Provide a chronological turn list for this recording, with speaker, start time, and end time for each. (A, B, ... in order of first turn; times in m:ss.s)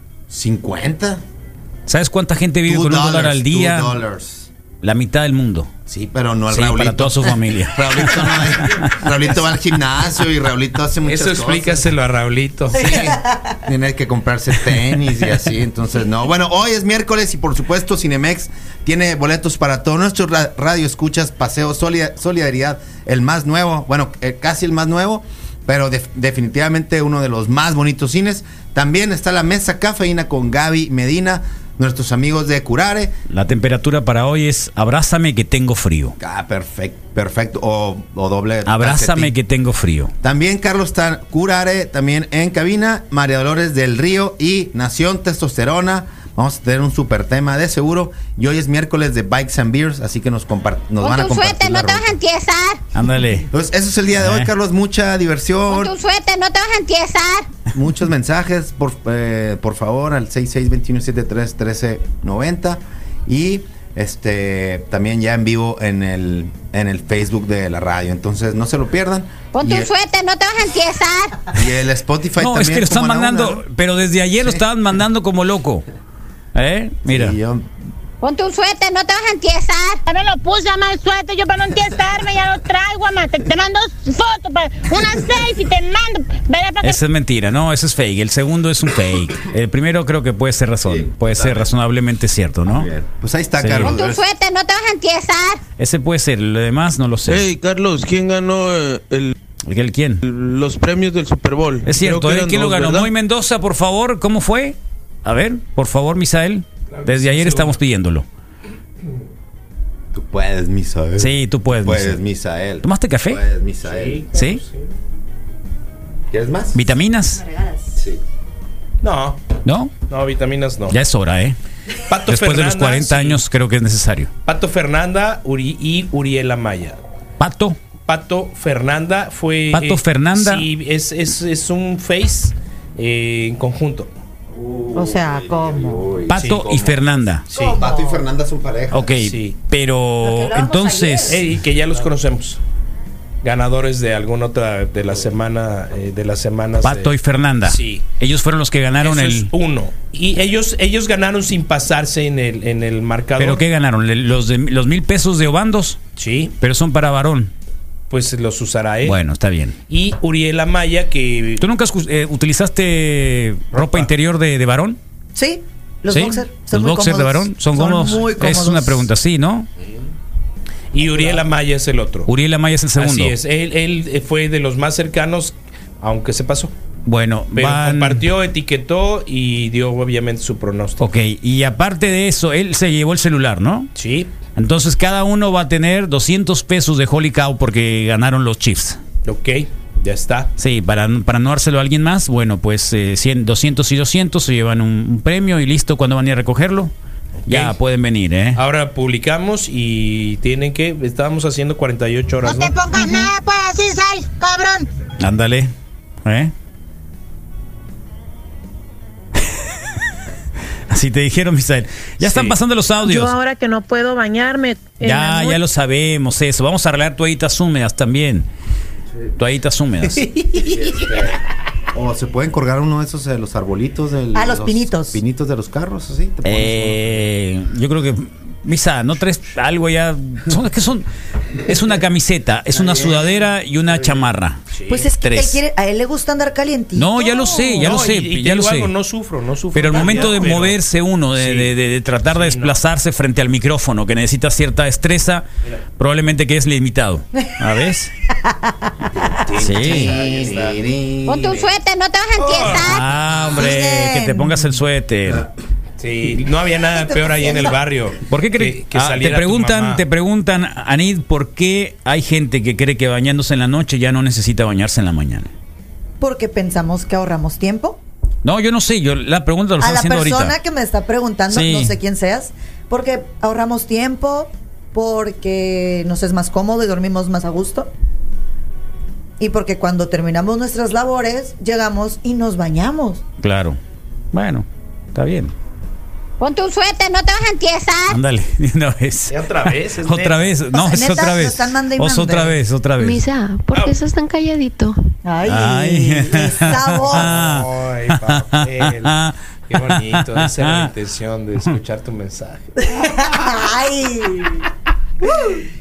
0:00.3-0:01.2 A
0:01.9-0:03.9 B
0:02.6-0:04.5 A
0:04.8-0:05.7 B
0:05.9-0:11.8 A
0:06.5-0:08.8 B
0:11.0-0:13.1 C
0:12.8-0:13.2 D
0:13.6-0:33.1 A
0:33.3-0:36.2 B
0:36.2-0:39.3 A
0:38.6-0:40.1 B
0:40.2-0:52.2 A
0:51.0-0:52.8 E
0:52.9-0:53.5 B
0:53.5-0:55.9 A
0:54.2-0:54.5 B
0:55.7-0:57.5 E
0:57.7-1:09.9 A
1:09.5-1:11.3 E
1:11.5-1:13.6 A
1:12.4-1:15.8 B
1:16.5-1:17.4 B
1:17.0-1:17.7 A
1:18.2-1:20.0 E
1:20.0-1:27.0 F
1:26.8-1:32.9 B
1:30.8-1:31.7 A
1:32.7-1:34.2 A
1:33.6-1:34.0 B
1:33.9-1:35.6 E
1:35.8-1:37.5 B
1:37.3-1:39.3 G
1:39.7-1:40.2 B
1:40.2-1:43.1 G
1:41.8-1:48.2 B
1:46.9-1:47.7 C
1:50.1-1:54.2 A
1:51.2-1:52.2 B
1:52.8-1:53.4 B
1:53.8-1:54.9 C
1:54.3-1:54.6 B
1:56.3-1:56.8 A
1:56.7-1:57.4 B
1:57.4-1:57.9 D
1:59.0-1:59.4 C
1:59.6-1:59.9 B
2:00.1-2:01.0 C
2:00.9-2:01.6 B
2:02.1-2:03.4 C
2:02.3-2:04.3 B
2:04.4-2:07.0 C
2:07.4-2:07.8 B
2:08.0-2:14.1 C
2:09.7-2:10.6 B
2:14.6-2:16.8 A
2:14.9-2:16.1 D
2:16.3-2:17.4 B
2:16.4-2:16.8 C
2:17.5-2:17.8 C
2:17.5-2:18.2 D
2:17.8-2:19.1 A
2:18.9-2:21.4 B
2:19.2-2:19.6 C
2:20.2-2:21.4 D
2:21.3-2:22.6 C
2:23.4-2:27.1 C
2:26.8-2:29.5 B
2:27.6-2:28.0 C
2:29.0-2:33.6 C
2:33.4-2:36.0 B
2:36.2-2:36.5 C
2:36.6-2:37.5 B
2:38.1-2:39.2 C
2:39.0-2:39.8 B
2:39.9-2:41.6 C
2:41.6-2:45.0 B
2:43.7-2:44.1 C
2:45.3-2:49.1 D
2:46.1-2:49.7 B
2:50.9-2:52.3 C
2:52.2-2:53.3 B
2:53.0-2:56.7 C
2:57.0-2:58.2 B
2:57.5-3:01.1 C
3:01.0-3:03.9 B
3:04.0-3:04.3 C
3:04.6-3:09.0 B
3:09.2-3:10.5 C
3:10.6-3:16.9 B
3:17.4-3:17.7 C
3:17.5-3:18.6 B
3:18.6-3:23.3 C
3:25.2-3:25.7 B
3:26.2-3:26.5 B
3:30.9-3:33.3 B
3:32.2-3:32.5 C
3:33.0-3:35.6 H
3:35.0-3:38.5 B
3:39.4-3:40.2 B
3:40.5-3:41.2 A
3:41.9-3:47.2 A
3:44.3-3:45.2 D
3:46.4-3:51.1 B
3:51.7-3:54.6 B
3:54.7-3:55.1 C
3:54.9-3:57.9 D
3:55.2-3:55.6 B
3:57.0-3:58.9 B
3:57.8-4:00.8 C
3:59.7-4:05.4 B
4:01.3-4:01.7 C
4:02.2-4:02.8 C
4:06.0-4:08.1 B
4:08.4-4:08.7 D
4:09.6-4:10.2 B
4:09.6-4:11.7 A
4:09.7-4:10.8 C
4:11.3-4:13.0 E
4:12.4-4:13.0 C
4:12.7-4:15.4 B
4:13.5-4:14.7 D
4:16.0-4:20.0 C
4:16.9-4:17.8 D
4:18.3-4:25.5 B
4:26.2-4:28.0 D
4:28.4-4:30.5 B
4:29.8-4:37.9 D
4:31.5-4:31.9 B
4:39.4-4:43.2 D
4:43.4-4:43.8 B
4:44.3-4:45.5 B
4:46.4-4:48.1 E
4:48.1-4:49.4 B
4:49.3-4:50.5 C
4:50.0-4:53.2 B
4:50.7-4:52.6 D
4:53.0-4:55.0 I
4:55.2-4:57.3 D
4:55.4-4:59.3 B
4:57.0-4:59.2 C
4:59.7-5:02.8 C
4:59.9-5:00.9 B
5:02.9-5:04.6 D
5:05.2-5:05.6 D